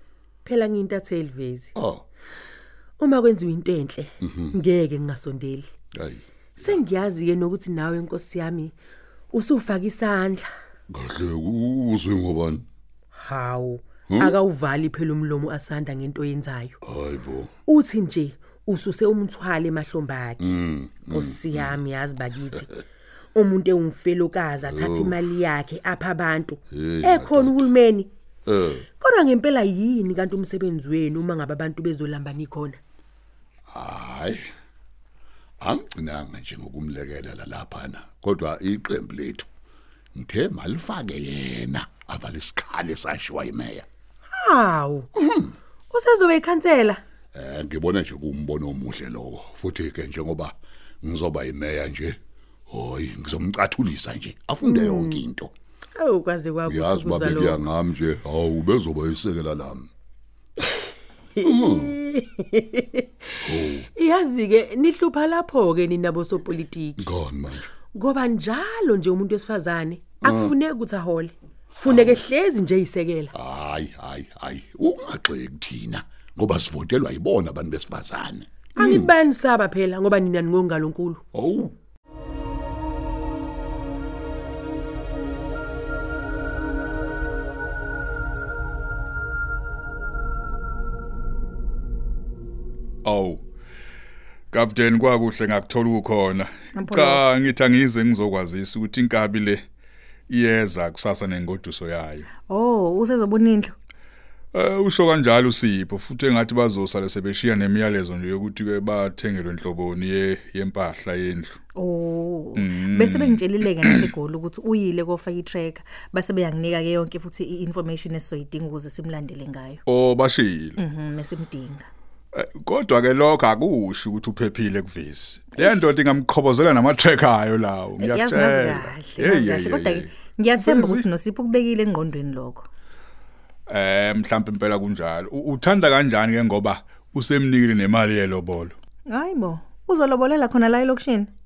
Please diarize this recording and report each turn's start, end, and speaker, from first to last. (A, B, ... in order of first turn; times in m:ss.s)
0:00.4-0:01.7 A
0:01.8-0:02.0 B
0:03.0-0:05.7 A
0:04.2-0:04.5 B
0:05.9-0:06.8 B
0:06.6-0:08.7 A
0:09.3-0:10.4 A
0:10.9-0:12.6 B
0:13.1-0:16.8 A
0:14.1-0:14.4 B
0:16.8-0:17.5 B
0:17.7-0:20.4 A
0:20.4-0:21.8 B
0:21.1-0:22.7 A
0:23.4-0:28.1 A
0:24.6-0:25.2 B
0:26.7-0:27.7 B
0:28.4-0:28.8 B
0:29.0-0:32.8 A
0:33.7-0:34.4 B
0:35.6-0:39.5 B
0:40.1-0:43.8 B
0:44.3-0:45.1 A
0:45.2-0:45.5 B
0:45.9-0:47.0 A
0:47.3-0:52.2 B
0:52.7-0:55.5 B
0:54.6-0:55.2 A
0:56.0-0:57.6 A
0:56.6-0:59.9 B
1:01.4-1:07.0 A
1:01.4-1:02.0 B
1:03.4-1:03.9 B
1:07.0-1:07.7 B
1:07.9-1:13.3 A
1:10.2-1:10.5 B
1:11.8-1:12.2 B
1:13.3-1:19.1 B
1:18.8-1:21.2 A
1:21.3-1:21.7 B
1:33.0-1:33.4 C
1:34.5-1:39.6 C
1:36.7-1:37.2 D
1:40.3-1:42.3 C
1:42.5-1:43.7 D
1:44.5-1:51.6 C
1:51.8-1:59.8 D
1:52.5-1:54.1 C
1:59.8-2:00.8 C
2:00.8-2:01.9 D
2:02.3-2:11.1 C
2:05.5-2:05.9 D
2:08.0-2:12.6 D
2:13.7-2:18.7 C
2:19.1-2:21.3 D